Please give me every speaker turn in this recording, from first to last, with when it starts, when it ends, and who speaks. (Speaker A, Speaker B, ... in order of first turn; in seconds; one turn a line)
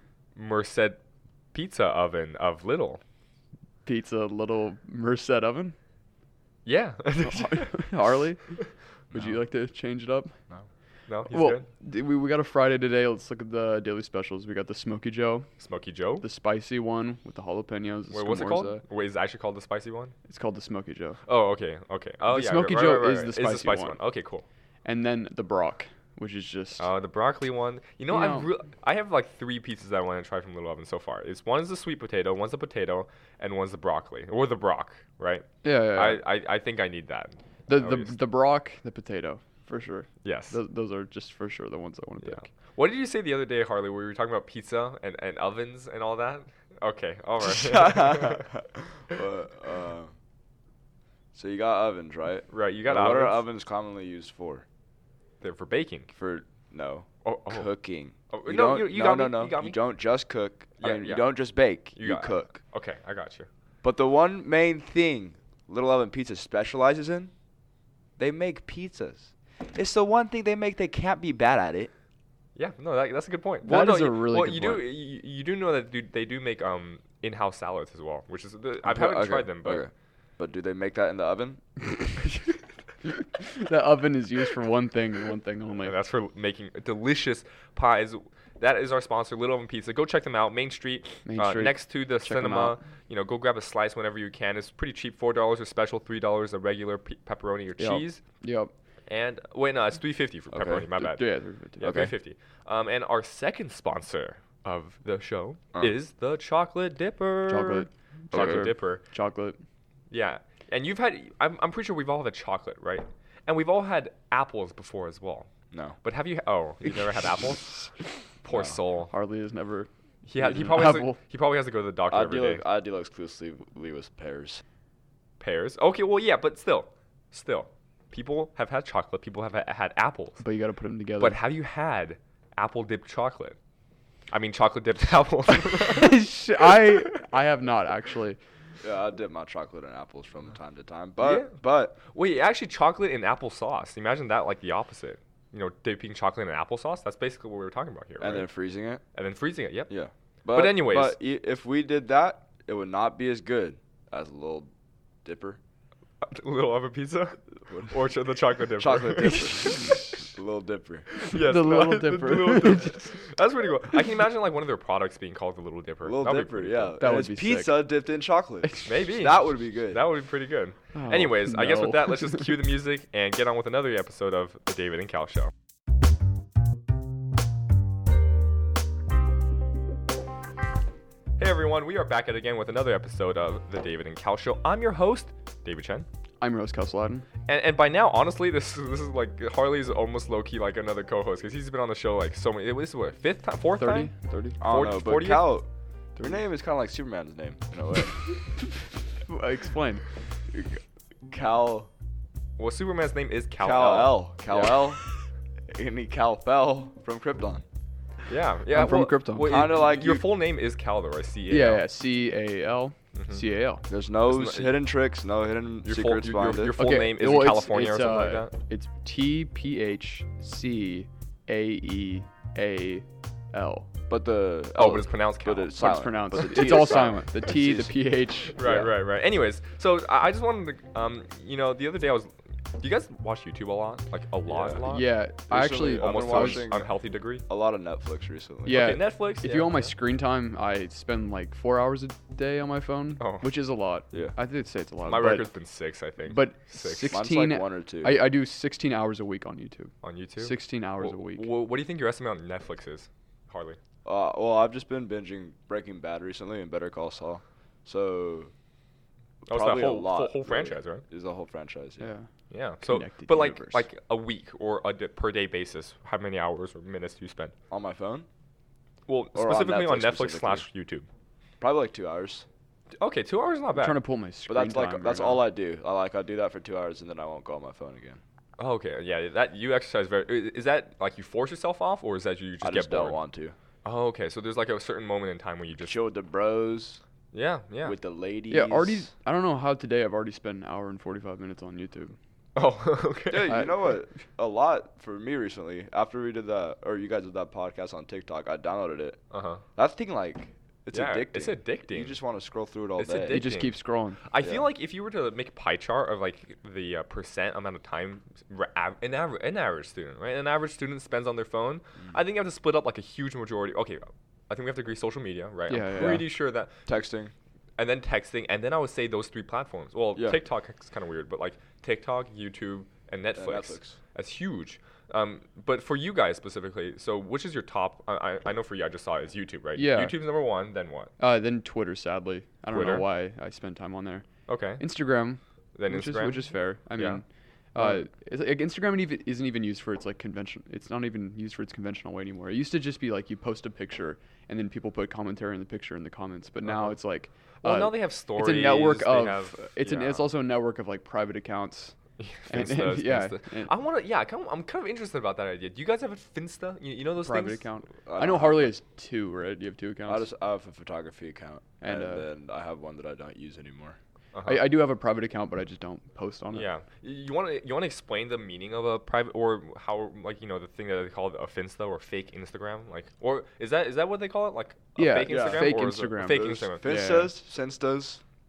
Speaker A: 0.3-1.0
Speaker A: 1.5-3.0
Speaker B: 3.8-5.8
Speaker A: 6.6-8.6
Speaker B: 7.2-8.4
Speaker B: 9.1-10.3
Speaker A: 11.1-11.7
Speaker B: 11.3-15.5
Speaker A: 15.6-16.2
Speaker B: 16.2-18.8
Speaker A: 18.1-20.1
Speaker B: 20.3-21.2
Speaker A: 21.2-24.4
Speaker B: 22.3-24.0
Speaker B: 24.8-26.9
Speaker A: 26.8-38.2
Speaker B: 28.1-28.5
Speaker B: 35.6-36.2
Speaker B: 37.7-42.4
Speaker A: 40.2-40.6
Speaker A: 42.2-48.5
Speaker C: 47.4-50.1
Speaker C: 51.3-54.6
Speaker A: 52.5-53.4
Speaker A: 55.4-56.1
Speaker C: 56.1-62.5
Speaker A: 57.2-57.7
Speaker A: 58.3-59.8
Speaker A: 60.8-61.2
Speaker A: 61.9-63.5
Speaker C: 63.8-67.3
Speaker C: 68.2-71.9
Speaker A: 72.5-79.9
Speaker B: 73.6-74.8
Speaker C: 78.8-81.6
Speaker B: 83.2-85.9
Speaker A: 85.8-98.2
Speaker B: 91.2-92.8
Speaker B: 97.8-98.7
Speaker A: 99.1-101.2
Speaker C: 100.5-100.9
Speaker B: 100.9-102.0
Speaker A: 101.8-109.0
Speaker C: 101.8-102.1
Speaker B: 107.5-109.6
Speaker C: 108.3-108.7
Speaker A: 110.1-115.5
Speaker C: 115.7-116.0
Speaker A: 116.0-117.9
Speaker A: 118.4-119.1
Speaker B: 119.1-121.2
Speaker A: 120.2-122.6
Speaker C: 122.1-124.6
Speaker A: 125.4-130.4
Speaker B: 130.4-131.4
Speaker A: 131.2-133.6
Speaker A: 134.3-136.8
Speaker B: 135.8-138.4
Speaker C: 138.8-142.0
Speaker A: 141.2-148.5
Speaker C: 148.2-149.0
Speaker A: 149.1-149.9
Speaker C: 149.9-154.7
Speaker A: 150.5-151.2
Speaker C: 155.2-155.6
Speaker A: 156.2-160.2
Speaker C: 157.7-158.0
Speaker C: 158.8-161.1
Speaker A: 161.1-166.9
Speaker B: 161.2-163.2
Speaker C: 166.0-170.0
Speaker B: 167.0-167.8
Speaker B: 168.6-168.9
Speaker A: 168.8-175.5
Speaker B: 170.9-172.4
Speaker A: 181.4-186.1
Speaker B: 186.4-187.2
Speaker A: 187.5-195.6
Speaker B: 193.8-194.6
Speaker C: 194.6-195.7
Speaker C: 196.2-198.2
Speaker B: 199.3-200.0
Speaker C: 200.5-201.9
Speaker A: 202.6-204.9
Speaker C: 203.6-205.0
Speaker C: 205.7-207.6
Speaker A: 208.3-211.8
Speaker B: 208.7-209.5
Speaker C: 209.4-210.3
Speaker B: 211.5-213.8
Speaker A: 213.1-213.4
Speaker C: 213.9-216.8
Speaker A: 214.2-214.8
Speaker A: 215.8-218.5
Speaker B: 216.8-223.9
Speaker C: 224.1-228.0
Speaker A: 224.7-226.8
Speaker B: 225.7-228.9
Speaker A: 228.6-235.2
Speaker C: 234.5-234.8
Speaker B: 234.8-236.7
Speaker C: 235.5-236.9
Speaker A: 235.8-237.4
Speaker C: 237.5-239.0
Speaker A: 238.7-239.9
Speaker B: 238.7-245.5
Speaker A: 243.2-243.5
Speaker A: 245.1-247.2
Speaker B: 246.3-251.4
Speaker C: 247.1-248.3
Speaker A: 250.0-253.8
Speaker C: 254.0-258.5
Speaker C: 259.4-262.1
Speaker A: 259.5-261.0
Speaker B: 262.0-262.3
Speaker A: 262.5-267.5
Speaker B: 262.8-263.8
Speaker C: 267.7-268.3
Speaker A: 269.1-271.1
Speaker C: 269.3-270.6
Speaker C: 271.6-272.5
Speaker A: 273.0-274.0
Speaker B: 273.7-275.5
Speaker C: 274.5-278.2
Speaker A: 278.6-283.2
Speaker C: 282.6-283.6
Speaker A: 283.8-286.0
Speaker C: 285.8-287.0
Speaker A: 287.3-288.0
Speaker C: 287.8-289.1
Speaker B: 288.5-292.1
Speaker A: 292.6-293.7
Speaker C: 293.3-299.2
Speaker B: 293.4-293.7
Speaker A: 299.3-299.6
Speaker C: 299.8-303.5
Speaker A: 300.9-302.2
Speaker A: 303.0-316.7
Speaker B: 303.3-304.2
Speaker C: 304.4-304.6
Speaker B: 315.7-316.2
Speaker C: 315.9-317.3
Speaker A: 317.8-331.1
Speaker C: 323.4-324.0
Speaker B: 329.8-330.1
Speaker B: 331.2-334.2
Speaker A: 332.7-333.0
Speaker A: 334.5-334.8
Speaker B: 334.8-351.9
Speaker A: 335.7-336.4
Speaker A: 337.0-337.2
Speaker A: 346.6-346.9
Speaker A: 347.6-350.3
Speaker A: 352.2-357.6
Speaker B: 352.5-353.7
Speaker B: 357.2-360.3
Speaker C: 358.1-358.7
Speaker C: 360.1-364.0
Speaker B: 361.8-362.3
Speaker A: 364.3-364.7
Speaker B: 364.4-366.7
Speaker A: 366.5-376.9
Speaker B: 374.9-377.3
Speaker C: 375.2-378.2